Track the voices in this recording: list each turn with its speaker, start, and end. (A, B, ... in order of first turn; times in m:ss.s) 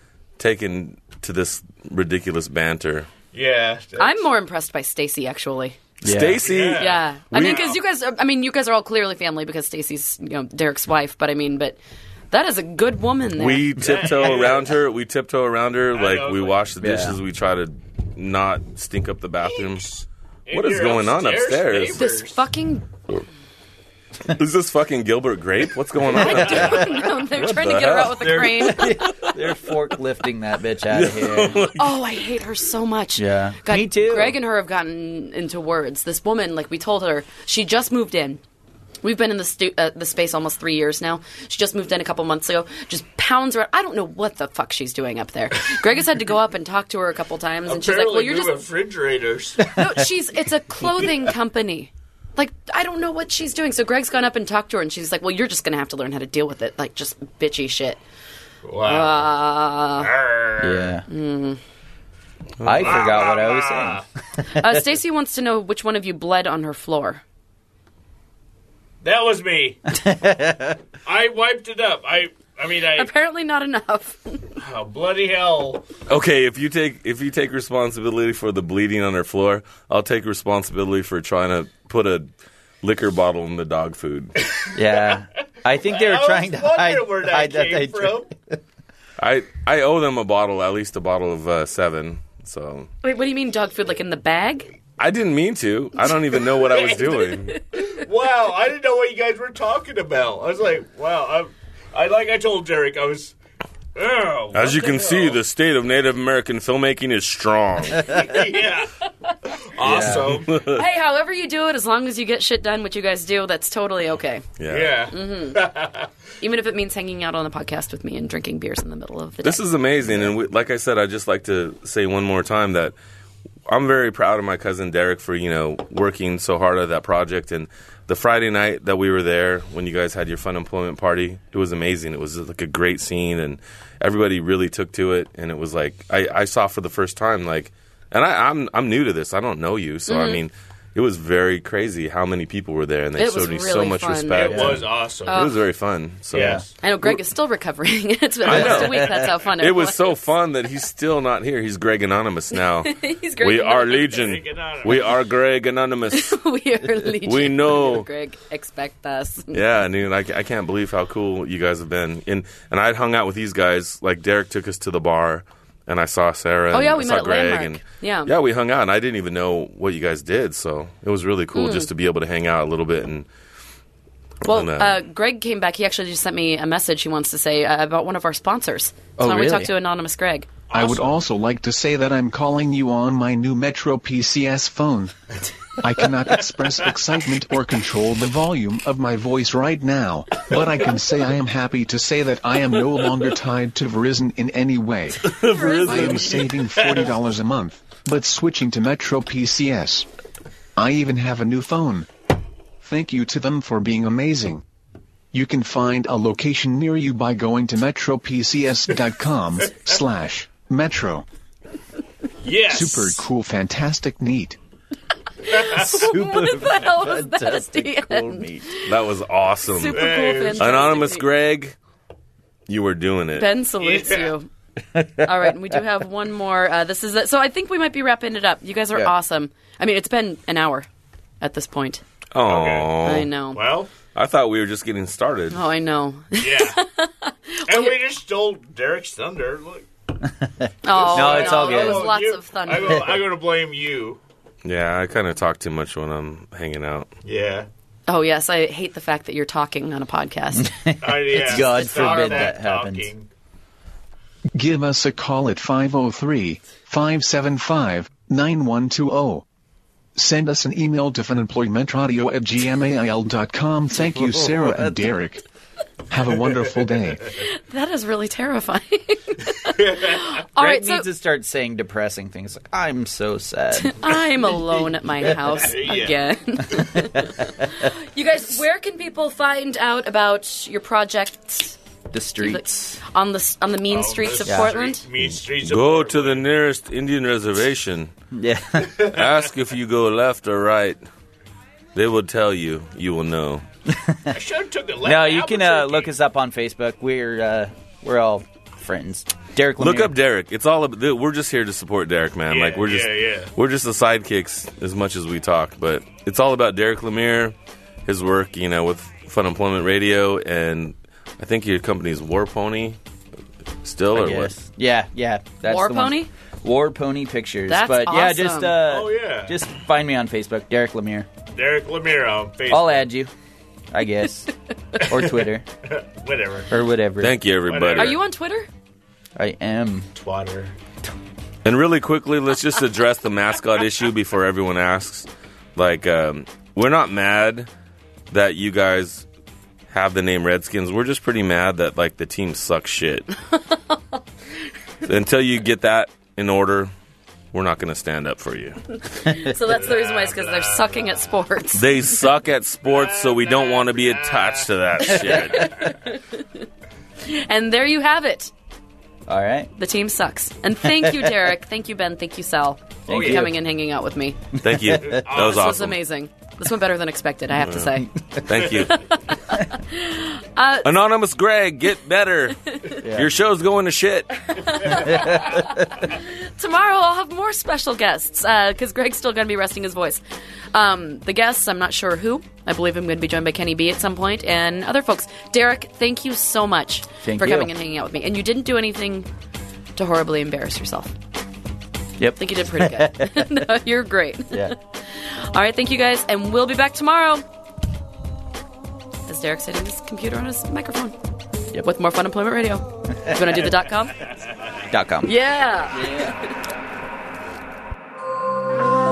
0:00.4-0:03.1 A
0:03.3-0:04.2 B
0:04.0-0:05.8 C
0:06.0-0:07.7 A
0:06.0-0:06.4 D
0:06.4-0:07.7 B
0:06.8-0:11.8 C
0:12.3-0:13.7 C
0:13.4-0:19.9 A
0:13.8-0:14.7 B
0:15.9-0:16.7 B
0:16.8-0:17.2 D
0:19.4-0:22.4 B
0:20.5-0:22.0 A
0:22.0-0:22.9 C
0:24.2-0:29.2 A
0:26.1-0:26.9 D
0:26.2-0:29.3 C
0:26.2-0:27.0 B
0:28.1-0:31.7 D
0:30.9-0:31.9 A
0:31.7-0:38.4 C
0:33.2-0:34.4 D
0:39.0-0:48.6 C
0:47.6-0:49.6 B
0:49.7-0:58.0 C
0:58.6-0:59.3 B
0:58.8-1:00.1 C
1:00.0-1:01.0 B
1:00.6-1:01.0 D
1:01.1-1:01.6 C
1:02.6-1:03.1 A
1:02.6-1:04.8 D
1:02.8-1:04.0 B
1:04.5-1:07.2 C
1:09.0-1:09.8 B
1:09.9-1:10.8 D
1:11.0-1:13.1 B
1:12.9-1:14.4 C
1:14.6-1:15.8 B
1:16.1-1:22.3 A
1:22.8-1:24.3 A
1:24.5-1:25.2 B
1:24.7-1:28.6 D
1:25.8-1:28.3 B
1:29.2-1:32.9 A
1:33.0-1:34.7 C
1:35.0-1:37.6 A
1:36.5-1:43.3 B
1:37.5-1:37.8 C
1:43.9-1:45.4 B
1:44.5-1:48.2 A
1:48.0-1:48.9 B
1:49.4-1:50.6 B
1:49.8-1:50.4 D
1:49.8-1:50.8 A
1:50.5-1:54.4 C
1:54.6-1:55.1 A
1:54.7-1:56.1 B
1:55.1-1:55.6 C
1:56.4-1:59.6 C
1:59.4-2:02.9 A
2:00.0-2:00.3 D
2:03.6-2:27.2 A
2:20.1-2:20.4 C
2:23.2-2:24.7 C
2:24.3-2:25.5 B
2:24.4-2:24.8 D
2:25.2-2:25.6 C
2:26.3-2:26.6 D
2:26.3-2:26.7 B
2:26.8-2:30.2 C
2:28.4-2:36.4 A
2:28.5-2:29.2 D
2:32.8-2:34.2 C
2:34.1-2:35.2 B
2:36.1-2:39.6 C
2:37.2-2:38.1 A
2:39.5-2:53.3 A
2:46.7-2:48.3 C
2:51.5-2:51.9 C
2:54.4-3:00.5 C
2:54.4-2:55.0 A
2:59.2-2:59.7 D
3:00.7-3:01.2 B
3:00.7-3:05.1 E
3:05.8-3:20.0 E
3:15.2-3:16.4 A
3:15.5-3:16.1 C
3:15.9-3:17.1 B
3:20.8-3:22.1 E
3:22.8-3:24.6 E
3:25.3-3:31.2 E
3:32.4-3:33.3 B
3:32.7-3:34.6 E
3:35.5-3:38.9 C
3:35.5-3:35.9 B
3:35.8-3:38.7 D
3:38.8-3:41.8 A
3:39.7-3:41.2 C
3:39.8-3:41.0 B
3:42.7-3:43.5 A
3:43.4-3:44.5 C
3:43.8-3:44.3 B
3:44.9-3:45.8 D
3:45.2-3:50.9 C
3:51.4-3:52.0 C
3:52.3-3:53.3 A
3:52.4-3:53.0 B
3:53.0-3:53.6 C
3:53.5-3:53.9 B
3:54.1-3:55.6 A
3:55.5-3:58.0 C
3:56.3-3:56.8 B
3:57.6-3:59.9 B
4:00.6-4:02.2 D
4:00.8-4:03.2 C
4:00.9-4:04.2 B
4:02.9-4:03.2 D
4:04.6-4:07.1 A
4:07.2-4:07.7 B
4:08.1-4:10.7 C
4:10.5-4:13.1 D
4:11.0-4:13.3 B
4:11.5-4:12.5 C
4:14.5-4:19.4 E
4:20.1-4:25.4 E
4:24.1-4:25.0 D
4:26.1-4:27.3 E
4:27.4-4:31.0 C
4:29.7-4:30.2 B
4:30.5-4:34.6 D
4:33.8-4:41.8 C
4:35.5-4:36.2 B
4:36.8-4:37.5 D
4:42.1-4:43.0 D
4:42.4-4:45.0 C
4:43.9-4:46.4 B
4:44.4-4:44.7 D
4:45.2-4:48.1 A
4:48.3-4:49.0 D
4:49.0-4:51.0 A
4:51.9-4:53.6 A
4:53.9-4:54.4 D
4:54.3-4:56.1 B
4:55.0-5:00.1 D
4:59.8-5:07.5 A
5:02.5-5:03.5 B
5:08.1-5:13.0 A
5:13.8-5:14.5 A
5:14.1-5:21.3 D
5:15.6-5:16.3 C
5:17.7-5:18.8 C
5:18.8-5:19.6 B
5:21.5-5:23.1 B
5:22.7-5:23.3 D
5:23.9-5:25.6 D
5:25.8-5:26.7 B
5:26.7-5:27.4 D
5:27.2-5:28.2 A
5:27.7-5:28.2 B
5:28.0-5:28.7 C
5:29.4-5:30.1 D
5:30.1-5:30.8 B
5:31.6-5:37.7 A
5:38.3-5:39.2 A
5:39.9-5:43.3 A
5:43.7-5:44.2 C
5:45.0-5:46.9 A
5:47.5-5:48.8 A
5:49.0-5:52.2 C
5:49.2-5:49.6 D
5:49.6-5:51.3 B
5:51.7-5:55.8 A
5:52.9-5:55.7 B
5:55.2-5:55.6 D
5:55.7-5:56.4 C
5:57.2-5:58.5 C
5:59.3-5:59.7 D
5:59.7-6:04.4 C
6:00.9-6:01.4 D
6:03.1-6:03.5 B
6:03.1-6:03.6 D
6:04.6-6:06.0 A
6:04.6-6:05.2 D
6:05.0-6:05.8 B
6:05.3-6:08.1 C
6:07.6-6:07.9 A
6:07.7-6:08.5 D
6:08.4-6:09.0 A
6:08.7-6:10.9 C
6:10.8-6:14.7 A
6:13.0-6:13.3 D
6:14.5-6:20.2 C
6:14.9-6:15.9 D
6:20.7-6:29.3 C
6:27.2-6:27.7 D
6:30.0-6:31.1 C
6:32.2-6:33.7 D
6:32.4-6:37.4 C
6:39.3-6:41.1 C
6:41.8-6:44.2 C
6:43.2-6:43.7 D
6:44.9-6:45.3 D
6:45.2-6:46.4 C
6:45.9-6:46.4 D